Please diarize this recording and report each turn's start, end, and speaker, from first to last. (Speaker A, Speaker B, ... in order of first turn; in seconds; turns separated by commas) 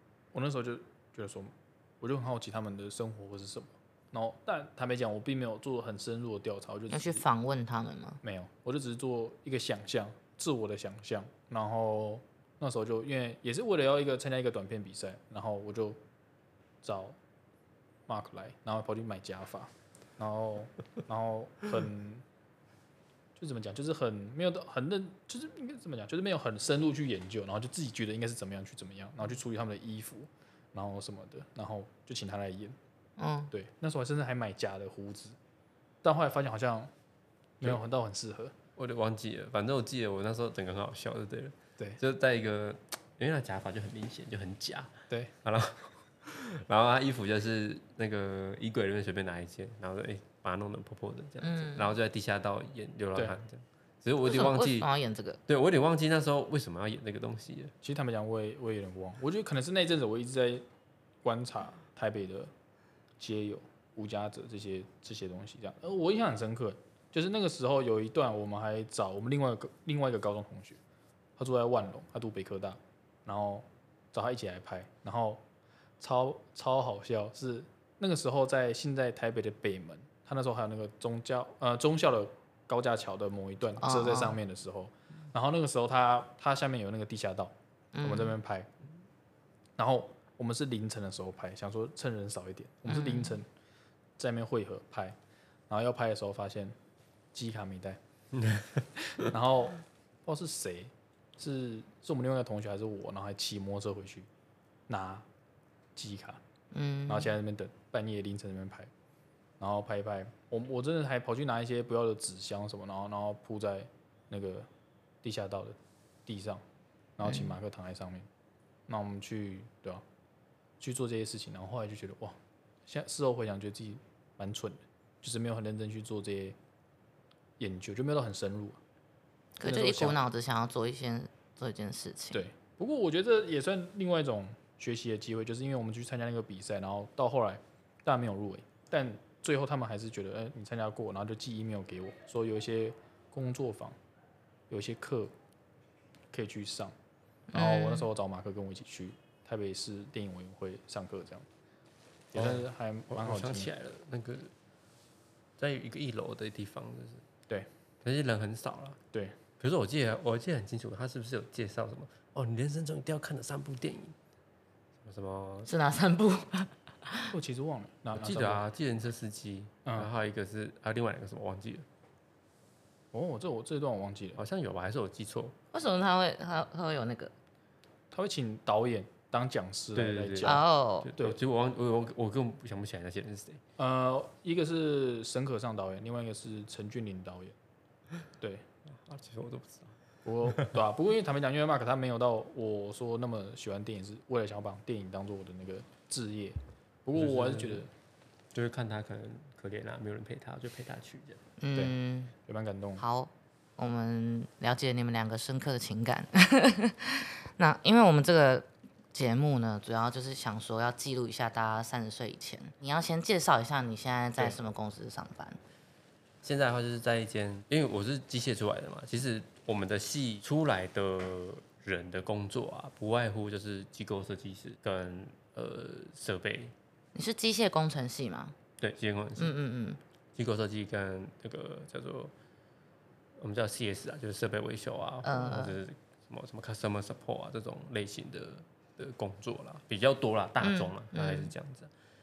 Speaker A: 0.3-7.2, Speaker B: 6.9-8.2, Speaker A: 8.2-16.0, Speaker A: 16.8-17.2, Speaker A: 18.1-22.2, Speaker A: 23.4-32.8, Speaker B: 33.2-33.5, Speaker A: 33.5-35.4, Speaker A: 36.0-36.9, Speaker A: 37.6-38.5, Speaker C: 38.8-44.9, Speaker C: 45.4-54.9, Speaker B: 51.4-51.9, Speaker B: 54.3-55.4, Speaker C: 55.5-57.7, Speaker A: 57.8-60.6, Speaker A: 61.2-62.5, Speaker A: 63.2-70.8, Speaker A: 71.4-75.4, Speaker A: 76.0-88.7, Speaker B: 83.8-84.4, Speaker B: 87.9-88.4, Speaker A: 89.8-93.5, Speaker B: 92.9-93.4, Speaker A: 94.2-95.2, Speaker A: 95.7-96.8, Speaker A: 97.3-98.0, Speaker C: 98.3-99.3, Speaker A: 99.2-104.3, Speaker A: 104.9-105.3, Speaker A: 106.0-106.4, Speaker B: 106.7-107.3, Speaker A: 107.1-108.9, Speaker A: 109.6-114.7, Speaker A: 115.2-116.6, Speaker A: 117.2-118.3, Speaker B: 117.2-117.6, Speaker A: 118.9-120.0, Speaker A: 120.8-126.6, Speaker A: 127.6-128.8, Speaker B: 129.6-132.4, Speaker A: 129.6-130.2, Speaker A: 132.3-144.0, Speaker A: 144.7-145.3, Speaker A: 146.3-146.9, Speaker B: 147.5-148.1, Speaker A: 147.5-151.5, Speaker A: 152.3-153.7, Speaker C: 152.3-154.5, Speaker C: 155.6-157.2, Speaker C: 158.0-159.0, Speaker C: 159.6-164.2, Speaker C: 165.0-165.7, Speaker B: 165.7-167.3, Speaker A: 167.3-168.7, Speaker C: 168.1-171.8, Speaker A: 173.1-174.4, Speaker C: 174.4-175.6, Speaker B: 175.7-177.3, Speaker A: 178.1-180.6, Speaker C: 179.9-183.6, Speaker B: 180.4-181.1, Speaker A: 183.8-187.6, Speaker A: 188.4-188.7, Speaker C: 188.9-189.9, Speaker A: 190.2-197.9, Speaker C: 190.5-190.8, Speaker C: 197.2-197.9, Speaker C: 198.5-201.4, Speaker B: 201.6-202.3, Speaker A: 202.5-203.0, Speaker B: 203.0-215.6, Speaker C: 216.4-226.7, Speaker B: 227.2-228.6, Speaker C: 228.8-229.6, Speaker B: 229.4-230.0, Speaker C: 230.3-232.3, Speaker C: 233.4-241.9, Speaker B: 235.2-235.8, Speaker B: 240.6-241.5